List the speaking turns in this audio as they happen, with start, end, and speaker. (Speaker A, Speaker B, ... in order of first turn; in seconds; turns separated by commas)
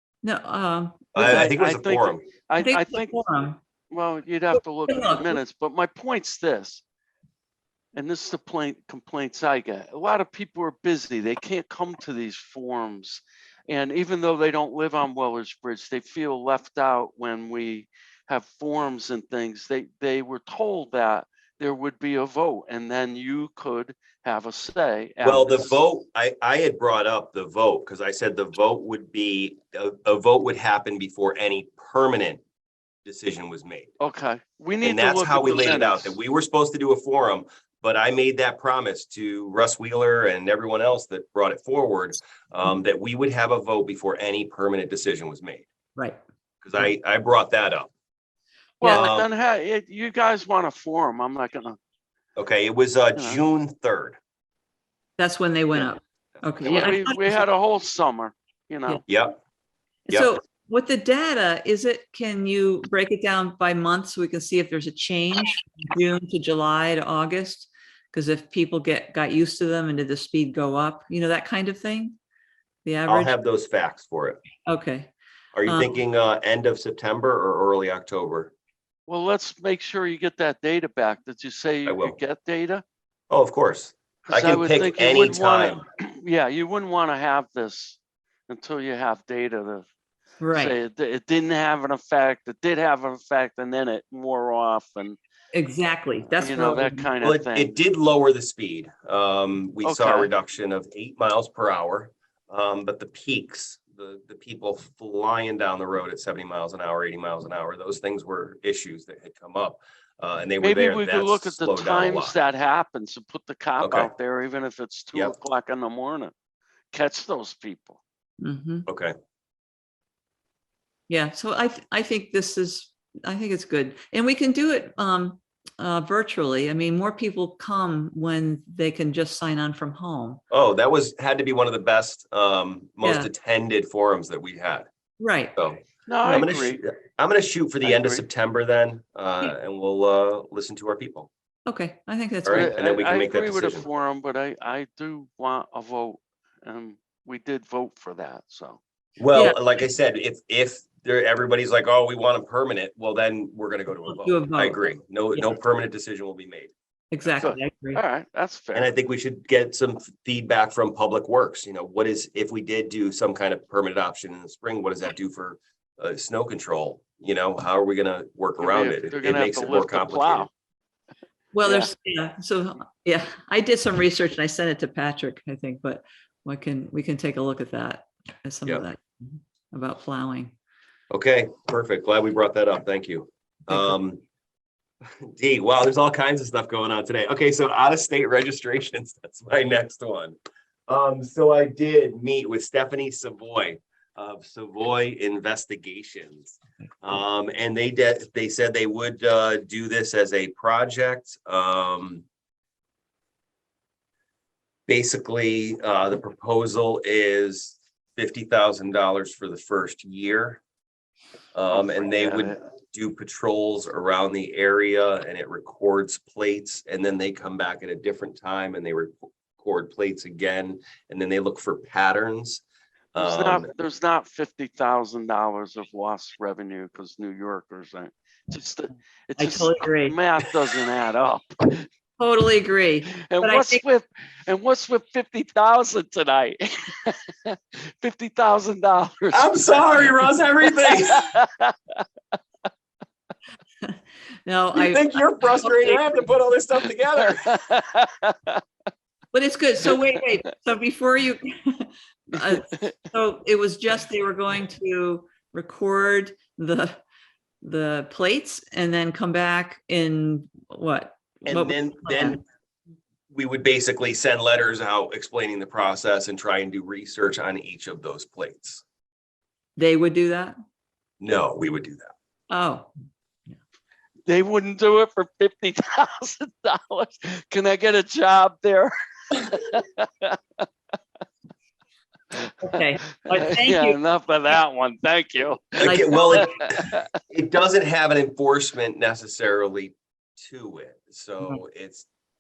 Speaker A: 0.2-1.4, Speaker B: 1.1-2.3, Speaker C: 1.2-3.2, Speaker A: 2.6-3.6, Speaker C: 3.9-6.8, Speaker A: 4.9-5.4, Speaker C: 8.0-25.8, Speaker B: 25.2-32.4, Speaker B: 33.0-33.9, Speaker C: 34.0-36.2, Speaker B: 34.8-45.7, Speaker B: 46.6-47.9, Speaker C: 48.8-51.8, Speaker B: 48.8-49.3, Speaker B: 52.4-54.2, Speaker C: 53.2-53.4, Speaker A: 55.2-57.5, Speaker B: 56.6-57.0, Speaker C: 56.6-59.0, Speaker B: 59.1-59.4, Speaker A: 60.1-72.2, Speaker A: 72.8-73.3, Speaker B: 73.1-74.4, Speaker A: 74.7-75.1, Speaker B: 75.5-78.5, Speaker A: 75.7-76.0, Speaker C: 79.1-82.8, Speaker B: 81.9-82.2, Speaker B: 83.3-85.8, Speaker C: 84.3-89.9, Speaker A: 90.4-90.8, Speaker C: 90.5-95.2, Speaker A: 95.5-97.1, Speaker C: 96.4-97.7, Speaker B: 97.2-112.4, Speaker C: 99.8-100.3, Speaker C: 110.6-116.3, Speaker B: 113.8-114.1, Speaker C: 116.9-118.0, Speaker A: 118.4-118.9, Speaker B: 118.9-119.1, Speaker A: 121.1-130.4, Speaker B: 130.5-134.9, Speaker A: 133.0-133.3, Speaker A: 135.2-135.5, Speaker B: 135.6-141.3, Speaker C: 136.1-136.8, Speaker C: 137.8-138.2, Speaker A: 141.7-142.7, Speaker B: 142.4-143.9, Speaker C: 142.5-148.8, Speaker B: 149.2-157.4, Speaker A: 149.3-149.8, Speaker A: 154.1-154.8, Speaker A: 157.1-158.0, Speaker C: 157.4-158.9, Speaker B: 158.7-170.5, Speaker C: 168.6-170.5, Speaker A: 171.5-180.5, Speaker C: 171.6-171.9, Speaker B: 181.1-184.2, Speaker A: 183.7-183.9, Speaker B: 185.2-190.4, Speaker B: 190.9-202.2, Speaker B: 204.9-210.6, Speaker B: 211.5-222.6, Speaker C: 211.7-212.6, Speaker B: 223.2-223.7, Speaker C: 223.2-231.9, Speaker A: 229.4-230.2, Speaker A: 232.2-233.8, Speaker C: 233.3-242.0, Speaker B: 239.3-241.3, Speaker A: 243.8-246.3, Speaker B: 244.7-247.6, Speaker C: 246.9-248.6, Speaker A: 249.3-257.0, Speaker C: 249.9-250.2, Speaker C: 252.4-253.0, Speaker A: 257.6-262.4, Speaker B: 261.5-262.4, Speaker B: 263.3-268.8, Speaker A: 269.8-270.6, Speaker B: 271.2-272.1, Speaker A: 272.5-272.9, Speaker C: 274.3-280.6, Speaker C: 282.3-287.0, Speaker A: 282.6-284.0, Speaker B: 285.8-292.1, Speaker A: 285.8-286.6